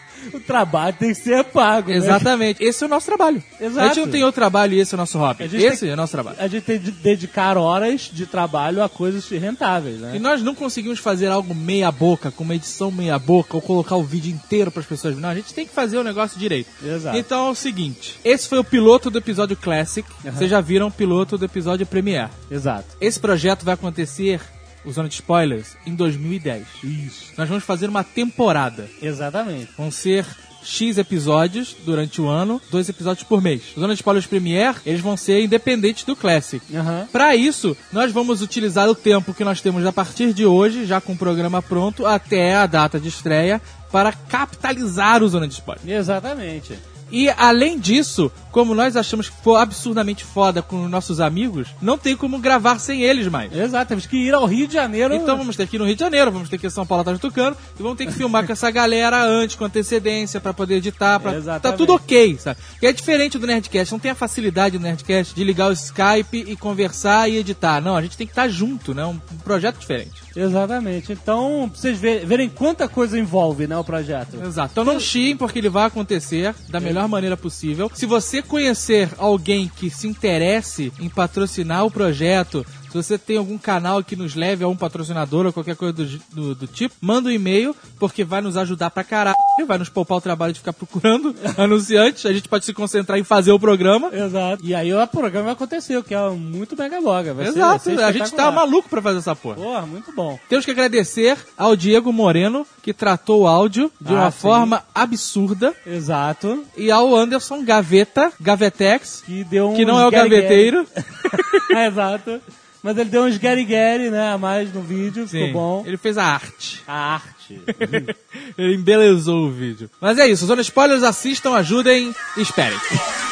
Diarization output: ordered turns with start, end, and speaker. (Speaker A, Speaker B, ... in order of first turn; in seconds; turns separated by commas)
Speaker A: 0.3-2.3, Speaker B: 1.9-6.4, Speaker A: 3.6-4.2, Speaker A: 5.4-10.2, Speaker B: 10.1-22.4, Speaker A: 16.8-17.2, Speaker A: 20.2-20.5, Speaker A: 22.5-22.9, Speaker B: 23.0-26.8, Speaker A: 26.8-27.3, Speaker B: 27.4-28.9, Speaker A: 29.0-29.7, Speaker B: 29.8-45.8, Speaker A: 36.7-37.1, Speaker A: 45.8-46.8, Speaker B: 47.1-53.5, Speaker A: 53.5-55.4, Speaker B: 55.1-70.2, Speaker A: 61.2-62.0, Speaker A: 70.3-75.0, Speaker B: 74.4-94.1, Speaker A: 94.1-98.6, Speaker B: 97.4-99.6, Speaker A: 99.6-100.4, Speaker B: 100.5-105.8, Speaker A: 104.0-104.8, Speaker A: 105.9-106.7, Speaker B: 106.8-111.7, Speaker A: 109.3-115.9, Speaker B: 115.3-116.9, Speaker A: 116.9-118.1, Speaker B: 117.7-123.0